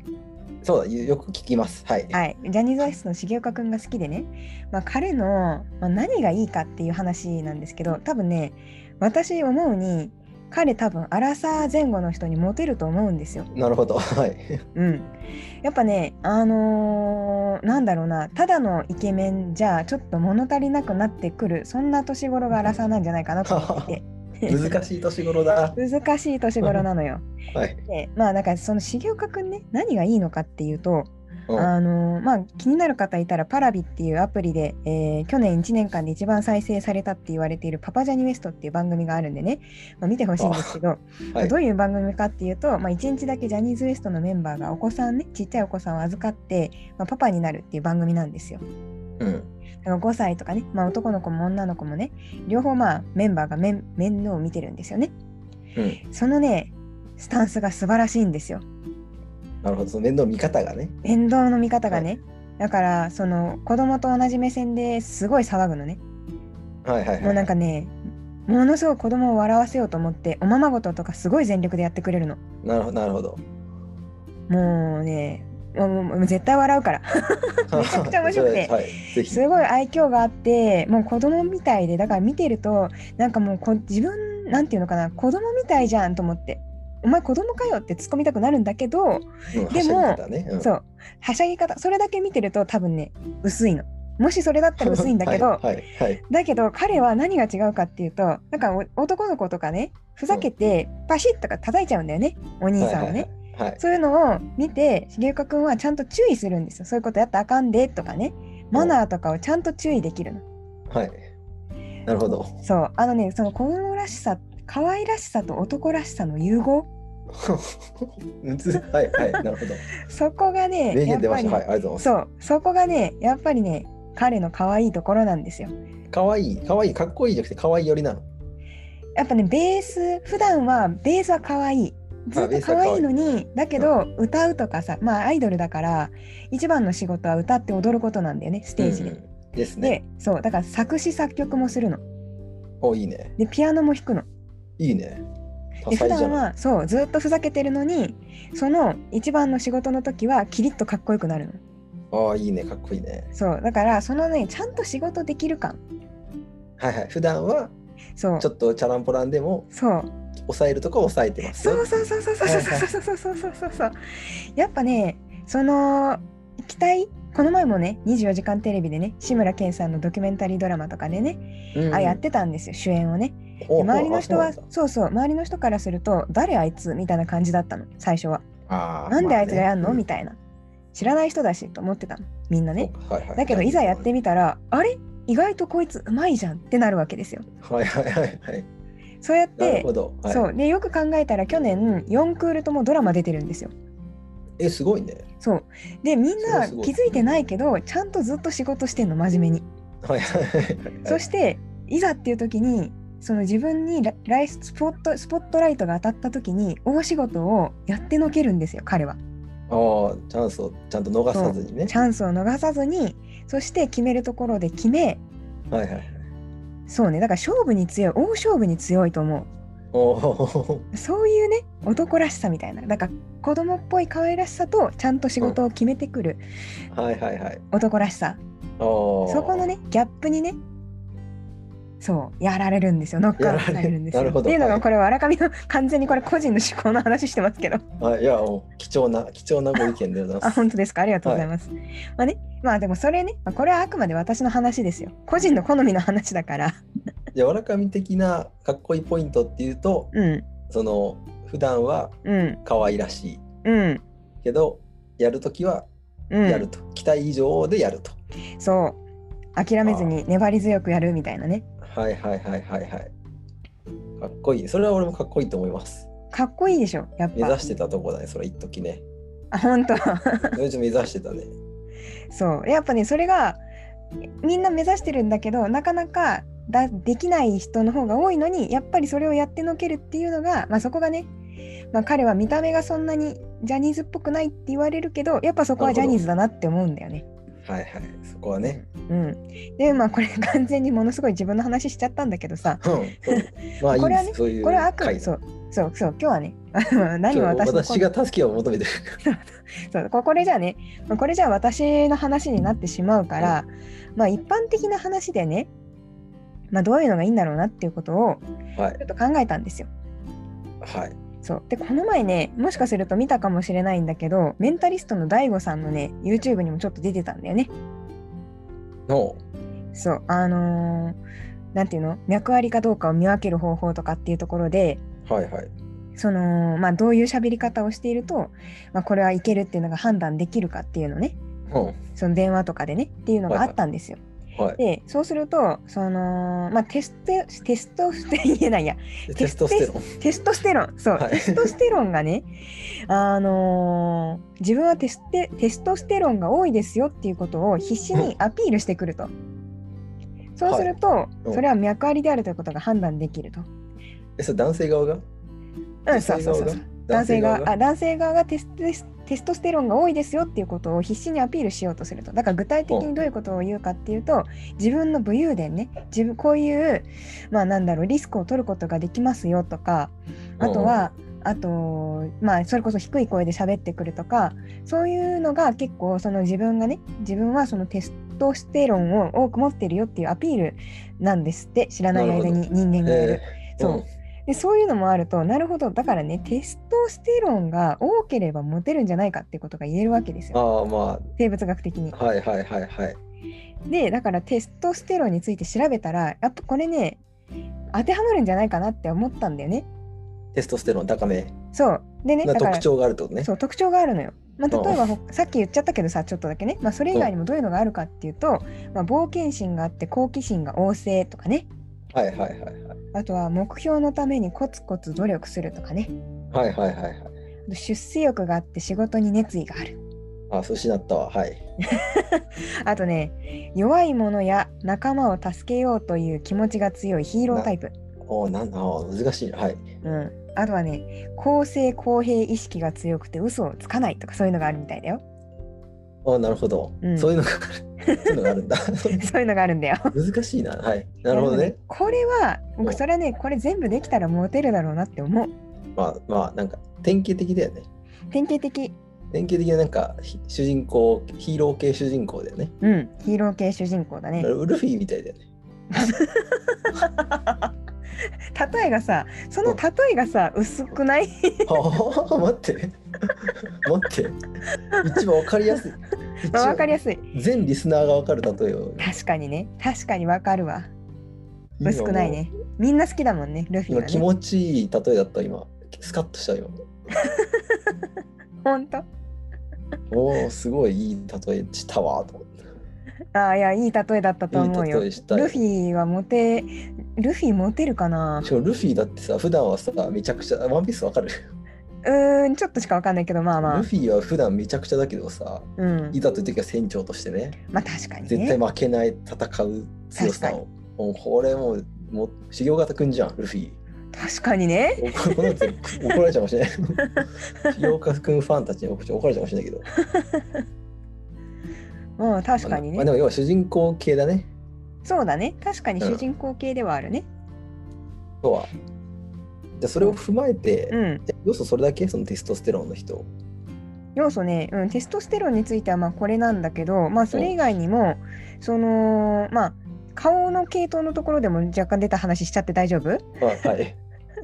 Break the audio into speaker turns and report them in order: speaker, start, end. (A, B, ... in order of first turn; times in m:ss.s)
0:00.6-0:02.2 A
0:02.1-0:13.5 B
0:13.5-0:14.6 A
0:14.8-0:15.1 B
0:15.6-0:24.8 B
0:23.4-0:25.8 A
0:25.8-0:27.2 B
0:27.5-0:27.8 A
0:27.9-0:48.6 B
0:40.4-0:40.8 A
0:49.2-0:49.5 A
0:49.8-0:55.1 B
0:55.8-0:56.0 A
0:56.1-0:58.6 B
0:59.6-1:01.0 A
1:01.0-1:06.0 B
1:06.8-1:07.5 A
1:07.2-1:07.9 B
1:08.5-1:12.4 B
1:12.6-1:13.4 A
1:14.5-1:18.7 B
1:17.7-1:19.4 A
1:19.3-1:35.6 B
1:29.5-1:30.7 A
1:34.8-1:36.2 A
1:36.3-1:50.4 B
1:42.8-1:43.8 A
1:48.7-1:49.0 A
1:50.9-1:51.2 A
1:52.1-1:52.5 A
1:52.5-1:56.9 B
1:57.3-1:59.9 A
1:59.1-1:59.4 B
1:59.9-2:05.7 B
2:00.9-2:02.1 A
2:06.1-2:08.2 A
2:09.2-2:19.1 B
2:12.4-2:13.1 A
2:18.8-2:20.0 A
2:19.8-2:22.0 B
2:22.8-2:23.4 A
2:23.4-2:24.3 B
2:24.8-2:25.2 A
2:25.8-2:26.5 A
2:25.9-2:31.6 B
2:32.1-2:33.3 A
2:33.3-2:35.8 B
2:36.8-2:37.7 A
2:38.2-2:38.5 B
2:38.4-2:39.7 A
2:39.7-2:40.1 B
2:40.5-2:42.9 A
2:41.5-2:58.4 B
2:51.7-2:52.2 A
2:53.6-2:54.6 A
2:58.7-3:00.0 A
2:59.1-3:00.4 B
3:00.9-3:07.5 B
3:02.8-3:04.1 A
3:07.6-3:08.7 A
3:09.2-3:13.7 B
3:09.6-3:10.5 A
3:14.6-3:15.2 A
3:15.4-3:19.6 B
3:16.4-3:17.4 A
3:20.0-3:21.2 A
3:21.1-3:29.2 B
3:29.7-3:31.9 A
3:31.3-3:35.2 B
3:35.7-3:36.2 A
3:36.9-3:39.5 B
3:39.9-3:40.9 A
3:40.9-3:46.4 B
3:46.9-3:47.6 A
3:47.7-3:48.4 B
3:48.8-3:49.7 A
3:49.3-3:50.6 B
3:52.0-3:57.8 B
3:53.4-3:54.8 A
3:58.0-4:00.6 A
4:00.4-4:06.8 B
4:01.2-4:01.5 A
4:07.3-4:10.1 A
4:10.1-4:10.4 B
4:10.7-4:13.4 A
4:12.2-4:12.6 B
4:13.6-4:14.0 B
4:14.4-4:15.9 A
4:16.3-4:16.7 B
4:16.4-4:18.1 A
4:18.6-4:19.0 B
4:19.6-4:21.6 B
4:19.8-4:20.1 A
4:21.8-4:23.1 A
4:24.2-4:26.1 A
4:26.3-4:27.6 B
4:27.4-4:29.0 A
4:29.5-4:30.6 B
4:30.5-4:31.5 A
4:32.3-4:33.6 B
4:34.4-4:41.3 B
4:41.9-4:47.2 B
4:45.8-4:46.2 A
4:47.6-4:48.8 A
4:48.8-4:58.1 B
4:52.8-4:55.3 A
4:57.3-4:59.2 A
4:59.2-5:05.7 B
5:06.7-5:08.4 B
5:09.0-5:09.9 B
5:10.8-5:11.1 A
5:11.4-5:17.7 B
5:19.1-5:19.4 A
5:19.9-5:21.2 B
5:21.7-5:25.0 B
5:25.2-5:25.7 A
5:26.2-5:31.4 B
5:31.7-5:32.0 A
5:32.2-5:34.2 B
5:33.5-5:33.7 A
5:34.8-5:42.5 B
5:39.3-5:40.1 A
5:41.2-5:41.7 A
5:43.1-5:49.3 B
5:50.6-5:53.7 B
5:50.6-5:51.6 A
5:54.4-5:55.2 A
5:56.1-6:30.6 B
5:56.1-5:57.7 A
6:10.6-6:11.1 A
6:22.1-6:24.0 A
6:30.5-6:31.3 A
6:31.4-6:32.2 B
6:32.1-6:33.2 A
6:33.9-6:37.2 B
6:37.9-6:39.9 B
6:40.5-6:41.5 A
6:41.7-6:42.9 B
6:42.4-6:43.5 A
6:43.4-6:51.7 B
6:44.7-6:45.0 A
6:52.1-6:53.0 A
6:53.1-6:56.1 B
6:56.5-6:57.3 A
6:57.7-7:00.0 B
7:00.5-7:01.6 A
7:01.9-7:07.9 B
7:08.2-7:09.9 A
7:10.0-7:15.2 B
7:16.2-7:19.3 A
7:17.0-7:17.3 B
7:18.0-7:18.5 B
7:19.1-7:20.1 B
7:20.1-7:21.8 A
7:21.3-7:25.5 B
7:26.0-7:27.9 A
7:28.3-7:29.0 B
7:29.3-7:32.7 A
7:32.8-7:34.5 B
7:34.4-7:35.4 A
7:35.9-7:37.7 B
7:38.5-7:41.7 B
7:41.7-7:44.4 A
7:44.7-7:45.2 B
7:45.0-7:49.1 A
7:46.5-7:47.2 B
7:49.0-7:50.9 B
7:51.8-7:52.4 A
7:51.8-7:54.2 B
7:53.9-7:56.8 A
7:57.1-7:58.0 B
7:58.6-7:59.1 B
8:00.1-8:02.5 A
8:03.3-8:08.5 B
8:04.5-8:05.6 A
8:08.4-8:11.5 A
8:12.0-8:13.9 B
8:13.6-8:17.6 A
8:15.8-8:16.1 B
8:17.7-8:18.6 B
8:18.3-8:23.8 A
8:20.2-8:20.6 B
8:24.1-8:26.1 B
8:25.0-8:27.0 A
8:27.0-8:27.7 B
8:27.6-8:29.9 A
8:30.0-8:30.5 B
8:32.2-8:33.1 B
8:32.6-8:34.5 A
8:35.0-8:37.2 B
8:38.4-8:38.7 A
8:39.8-8:43.3 A
8:40.9-8:41.2 B
8:44.2-8:53.2 B
8:53.4-8:54.0 A